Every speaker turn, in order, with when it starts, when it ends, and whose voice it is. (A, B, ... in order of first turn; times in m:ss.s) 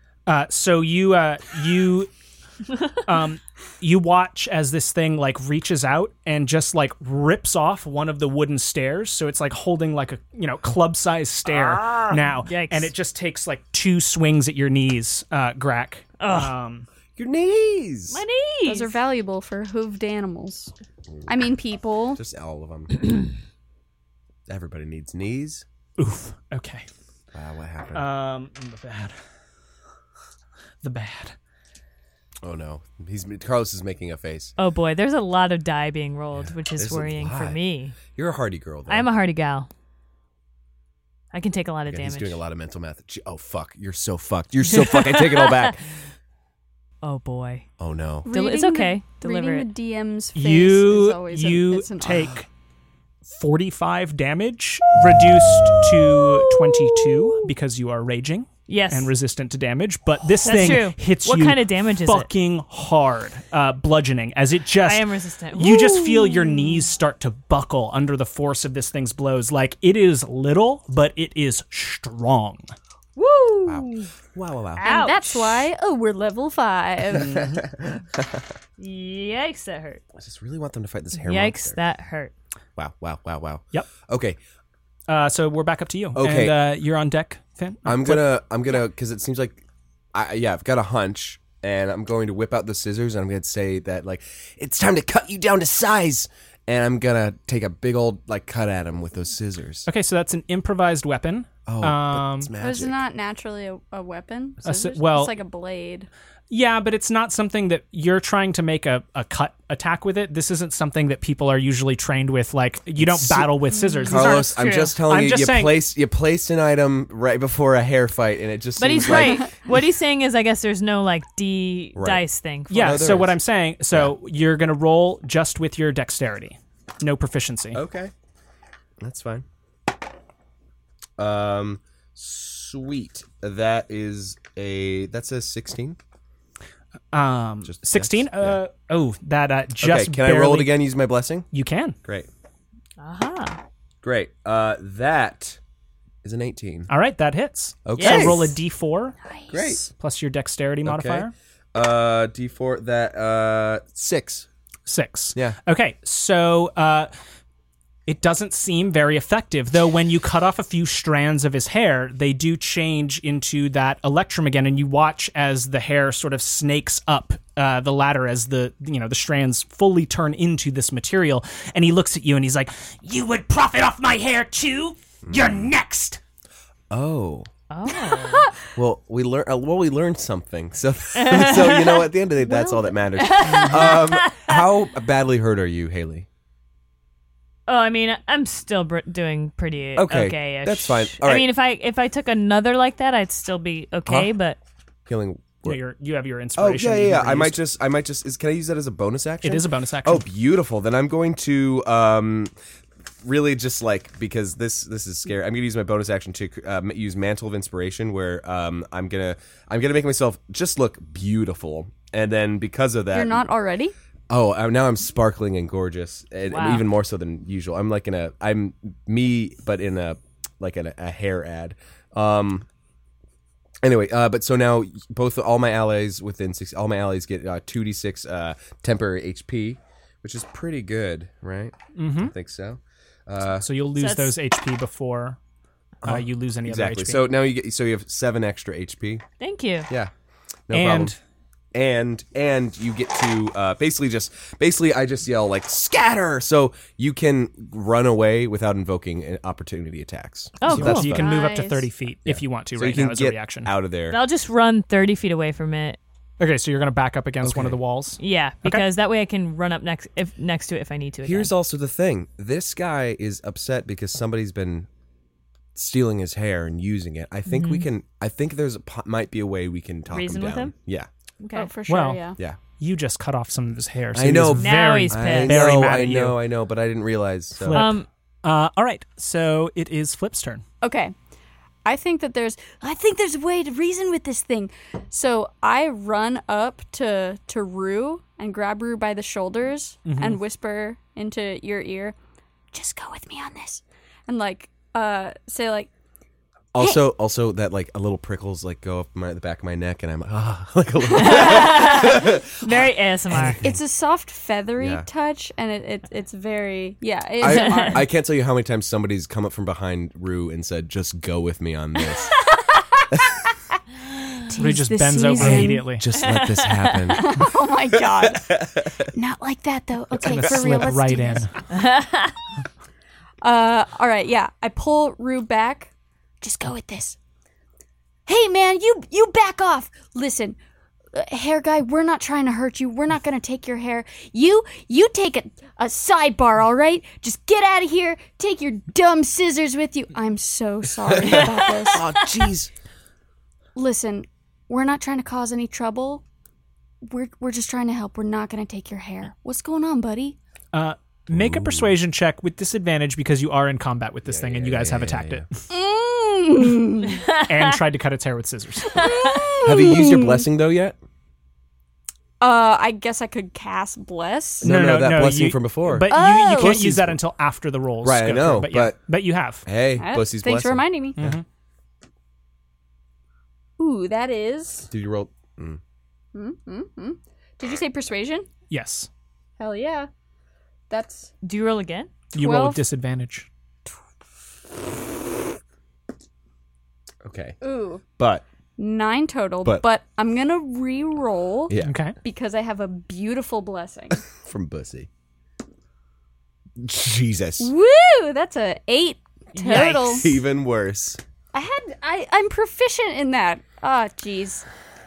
0:00.3-0:02.1 A
0:03.0-0:16.9 A
0:11.5-0:12.2 B
0:12.5-0:12.9 C
0:16.2-0:16.5 C
0:17.2-0:18.2 B
0:18.1-0:19.0 C
0:18.6-0:20.7 D
0:21.3-0:22.2 D
0:22.2-0:23.2 B
0:24.5-0:25.6 B
0:26.0-0:26.9 A
0:27.3-0:28.1 B
0:27.9-0:29.2 A
0:30.8-0:31.4 A
0:32.4-0:34.5 B
0:34.6-0:38.0 C
0:36.4-0:39.1 B
0:38.9-0:39.7 C
0:41.3-0:42.4 C
0:41.9-0:45.8 B
0:44.8-0:45.7 C
0:47.0-0:47.6 C
0:47.8-0:48.3 B
0:48.2-0:52.3 D
0:48.3-0:49.7 C
0:50.4-0:52.5 A
0:53.3-1:12.7 A
0:58.7-0:59.1 C
1:00.4-1:02.3 C
1:04.8-1:06.2 C
1:13.2-1:14.1 D
1:13.7-1:14.9 B
1:14.8-1:15.7 C
1:14.8-1:17.5 D
1:17.1-1:17.6 A
1:17.2-1:18.4 B
1:18.8-1:20.0 C
1:20.2-1:21.8 B
1:21.2-1:22.3 C
1:22.8-1:24.4 B
1:25.1-1:28.3 A
1:26.2-1:26.6 B
1:27.8-1:39.9 B
1:39.9-1:42.5 A
1:41.7-1:43.0 B
1:42.6-1:46.1 D
1:44.6-1:45.4 A
1:46.5-1:55.8 A
1:53.0-1:59.6 B
1:53.8-1:54.2 D
1:54.1-1:54.9 C
1:58.8-2:03.1 C
1:59.1-1:59.4 D
2:02.0-2:03.4 B
2:02.7-2:07.8 A
2:07.7-2:08.1 B
2:09.0-2:09.4 B
2:11.2-2:16.0 B
2:17.1-2:20.8 A
2:17.6-2:18.6 B
2:19.8-2:21.5 B
2:21.5-2:22.0 A
2:23.0-2:23.6 C
2:24.0-2:25.6 B
2:26.2-2:26.9 B
2:26.9-2:31.3 A
2:27.8-2:28.5 B
2:28.0-2:28.4 C
2:29.5-2:29.9 B
2:30.8-2:34.5 B
2:34.9-2:37.1 A
2:38.1-2:56.2 A
2:55.2-2:55.7 B
2:56.9-2:57.5 B
2:57.7-2:58.5 C
2:58.7-3:06.3 B
3:01.2-3:02.1 C
3:02.6-3:02.9 E
3:03.2-3:04.6 C
3:07.7-3:14.6 C
3:10.0-3:11.5 B
3:14.1-3:14.3 B
3:15.1-3:15.8 B
3:15.6-3:17.6 A
3:16.6-3:22.5 B
3:19.4-3:20.2 A
3:23.2-3:33.4 B
3:33.1-3:33.9 D
3:34.3-3:42.7 B
3:36.5-3:36.8 C
3:43.8-3:53.7 B
3:52.0-3:52.3 A
3:53.6-3:55.4 A
3:54.0-3:54.4 C
3:56.0-3:59.2 B
3:56.0-3:57.3 A
3:59.4-3:59.9 C
4:00.7-4:01.1 B
4:00.7-4:01.2 A
4:01.7-4:11.3 B
4:10.6-4:11.3 C
4:10.6-4:13.7 A
4:11.0-4:11.9 D
4:12.3-4:14.2 B
4:14.1-4:16.0 C
4:16.4-4:18.8 A
4:17.4-4:17.8 B
4:18.2-4:21.5 C
4:21.2-4:24.9 B
4:25.8-4:31.1 B
4:27.5-4:27.9 C
4:30.1-4:30.7 C
4:31.4-4:31.7 C
4:31.5-4:32.4 D
4:31.9-4:32.2 A
4:32.8-4:36.4 A
4:34.1-4:37.9 B
4:34.6-4:35.6 C
4:37.6-4:40.6 A
4:37.7-4:38.1 C
4:40.8-4:41.1 D
4:41.8-4:42.8 D
4:42.7-4:44.5 E
4:44.4-4:52.2 D
4:50.0-4:50.4 A
4:52.7-4:53.8 E
4:54.3-4:55.9 D
4:56.7-5:03.8 B
5:01.1-5:03.6 C
5:03.6-5:08.0 D
5:04.8-5:05.1 B
5:07.4-5:12.3 B
5:07.4-5:08.0 C
5:13.1-5:13.4 B
5:14.5-5:15.9 E
5:14.6-5:16.1 A
5:15.4-5:17.5 B
5:16.1-5:17.2 C
5:17.1-5:18.5 D
5:18.0-5:19.0 B
5:19.1-5:21.5 E
5:20.2-5:21.5 A
5:20.4-5:21.1 D
5:21.8-5:22.3 C
5:23.4-5:25.9 D
5:26.4-5:27.2 E
5:28.3-5:30.5 E
5:30.1-5:30.5 D
5:31.3-5:33.7 E
5:32.2-5:34.3 D
5:34.2-5:40.1 E
5:35.5-5:35.9 D
5:36.4-5:36.7 D
5:38.3-5:39.1 D
5:40.1-5:42.0 D
5:41.1-5:42.7 B
5:43.8-5:46.2 D
5:44.8-5:45.6 E
5:47.1-5:50.3 D
5:47.5-5:47.8 E
5:49.4-5:50.2 E
5:50.7-5:55.5 A
5:51.3-5:52.0 B
5:54.3-5:55.5 B
5:55.7-5:57.2 D
5:57.2-5:57.7 C
5:57.4-5:59.0 A
5:58.9-6:00.4 D
5:59.6-6:00.3 E
5:59.6-6:01.0 B
6:02.4-6:04.7 D
6:04.6-6:07.2 B
6:04.6-6:09.6 A
6:06.1-6:06.7 E
6:06.1-6:06.7 D
6:08.0-6:09.0 B
6:09.6-6:11.4 B
6:10.0-6:11.2 D
6:11.2-6:11.4 A
6:13.8-6:14.9 D
6:14.9-6:15.8 B
6:16.3-6:18.5 D
6:18.7-6:19.1 A
6:19.6-6:20.1 D
6:20.9-6:21.3 D
6:21.4-6:22.1 C
6:22.3-6:23.5 A
6:22.4-6:22.8 D
6:27.2-6:27.6 B
6:27.6-6:28.0 D
6:28.2-6:28.4 B
6:28.8-6:34.2 D
6:31.7-6:32.0 B
6:31.8-6:32.2 A
6:34.4-6:35.1 B
6:36.8-6:37.7 B
6:37.6-6:40.3 D
6:39.5-6:40.3 C
6:39.7-6:41.2 B
6:41.5-6:44.7 D